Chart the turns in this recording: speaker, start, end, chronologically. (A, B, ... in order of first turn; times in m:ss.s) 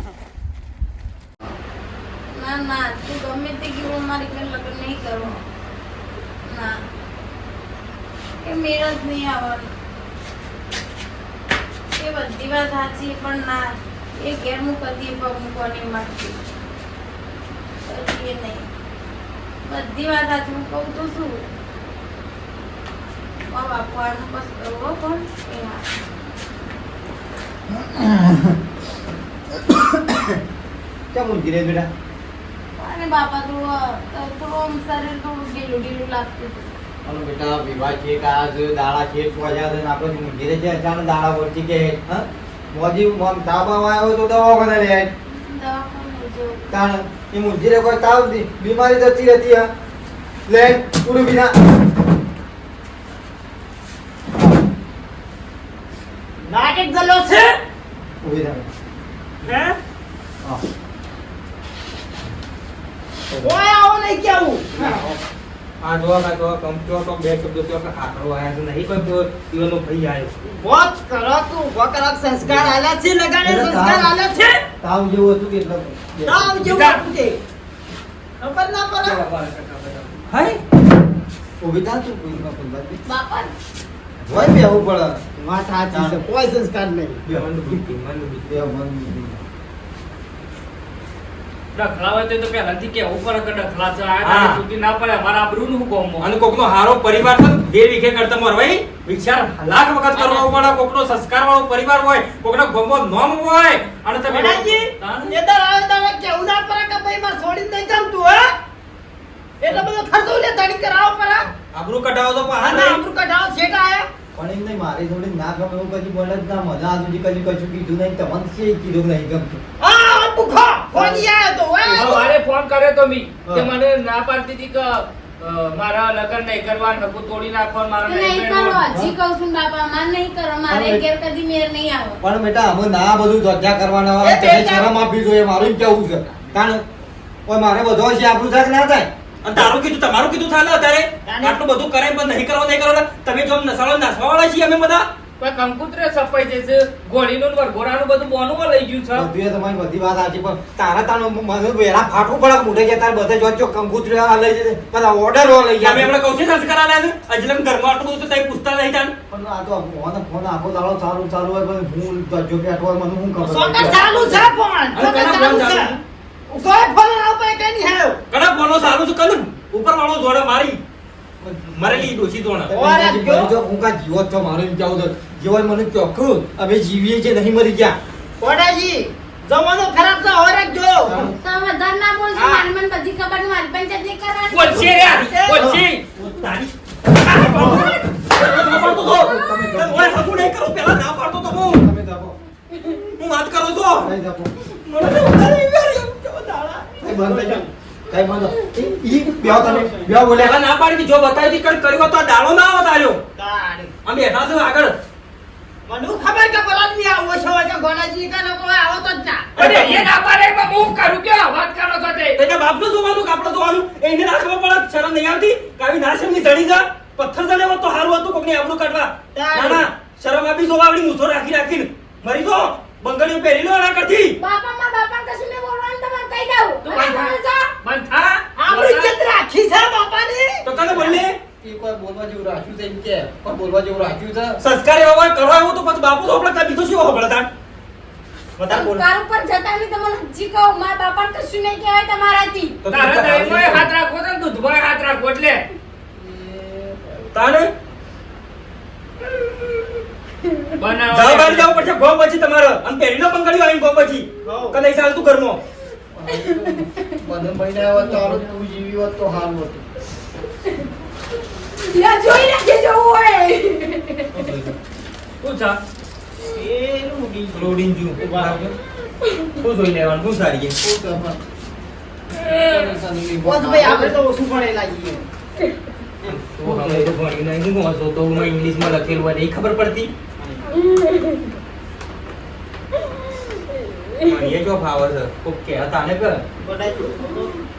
0:02.3-0:05.4 A
0:06.4-0:06.8 A
0:08.4-0:09.7 A
0:11.9-0:13.6 A
0:14.2-0:16.4 A
0:17.8-0:18.7 A
0:19.6-0:21.5 A
0:23.5-0:25.8 A
0:27.7-0:28.5 B
0:29.6-0:30.4 B
0:31.1-0:31.9 B
0:32.8-0:36.7 A
0:37.0-0:45.1 B
0:45.3-0:46.7 A
0:46.7-0:49.7 B
0:50.5-0:51.6 B
0:56.4-0:57.6 C
0:58.2-0:58.7 B
0:59.4-0:59.8 C
1:03.4-1:05.2 C
1:05.8-1:10.3 D
1:10.4-1:14.6 C
1:12.4-1:12.7 B
1:13.4-1:14.1 B
1:14.8-1:16.6 B
1:16.2-1:17.4 C
1:16.6-1:17.1 E
1:18.4-1:19.2 C
1:19.0-1:20.3 E
1:20.3-1:20.6 D
1:21.6-1:23.0 B
1:23.0-1:23.5 A
1:24.2-1:25.2 B
1:25.4-1:27.2 C
1:25.9-1:26.2 B
1:27.2-1:28.5 D
1:27.3-1:27.7 B
1:28.4-1:29.4 B
1:31.7-1:36.3 E
1:34.2-1:34.6 D
1:36.2-1:44.9 D
1:40.2-1:40.5 E
1:44.3-1:48.5 C
1:45.0-1:45.3 E
1:49.6-1:51.5 C
1:51.7-1:53.0 D
1:52.6-1:54.1 C
1:54.3-1:59.6 B
1:59.8-2:02.3 C
2:00.9-2:01.2 B
2:01.9-2:08.8 E
2:03.4-2:03.7 B
2:08.0-2:12.2 A
2:08.9-2:09.2 B
2:10.7-2:11.0 B
2:12.2-2:16.8 B
2:14.2-2:14.9 C
2:17.4-2:19.1 B
2:19.4-2:25.1 D
2:21.2-2:21.6 C
2:25.4-2:29.3 E
2:29.1-2:36.1 B
2:35.8-2:39.1 D
2:39.3-2:44.5 B
2:43.4-2:48.2 C
2:44.9-2:46.0 D
2:48.3-2:50.8 D
2:51.4-2:52.1 B
2:51.7-2:52.7 D
2:52.7-2:58.0 B
2:52.7-2:53.5 C
2:58.4-3:01.3 C
3:01.0-3:01.4 B
3:01.3-3:05.3 A
3:02.3-3:02.7 C
3:04.5-3:06.0 E
3:05.1-3:05.8 C
3:05.6-3:06.2 B
3:06.3-3:11.8 D
3:07.3-3:07.8 C
3:07.3-3:10.3 B
3:11.6-3:12.4 B
3:12.9-3:14.1 D
3:14.0-3:14.5 B
3:14.7-3:17.1 D
3:17.0-3:20.6 B
3:17.1-3:17.7 C
3:19.3-3:20.2 C
3:20.4-3:23.2 D
3:23.4-3:23.9 C
3:24.0-3:25.0 D
3:25.8-3:29.9 C
3:29.6-3:30.1 D
3:29.6-3:32.4 E
3:32.4-3:44.4 D
3:39.3-3:39.9 C
3:44.4-3:47.6 A
3:46.8-3:49.2 E
3:48.6-3:51.2 C
3:50.6-3:51.4 D
3:51.6-3:54.6 B
3:54.6-3:57.5 D
3:58.6-3:59.0 D
3:58.7-4:02.8 A
4:02.8-4:03.9 D
4:02.9-4:05.6 E
4:06.2-4:07.2 B
4:07.3-4:07.7 D
4:10.8-4:11.9 E
4:11.1-4:15.6 D
4:14.4-4:14.8 C
4:16.1-4:19.8 B
4:16.3-4:17.2 A
4:21.8-4:24.4 A
4:24.3-4:24.8 D
4:25.4-4:25.8 E
4:26.4-4:28.6 C
4:27.5-4:28.8 D
4:29.2-4:29.5 A
4:29.6-4:30.8 D
4:30.8-4:31.4 B
4:32.4-4:34.2 B
4:33.4-4:35.2 C
4:36.3-4:40.1 D
4:36.6-4:37.1 B
4:40.4-4:40.7 C
4:40.8-4:41.4 A
4:44.2-4:46.4 D
4:46.6-4:47.6 C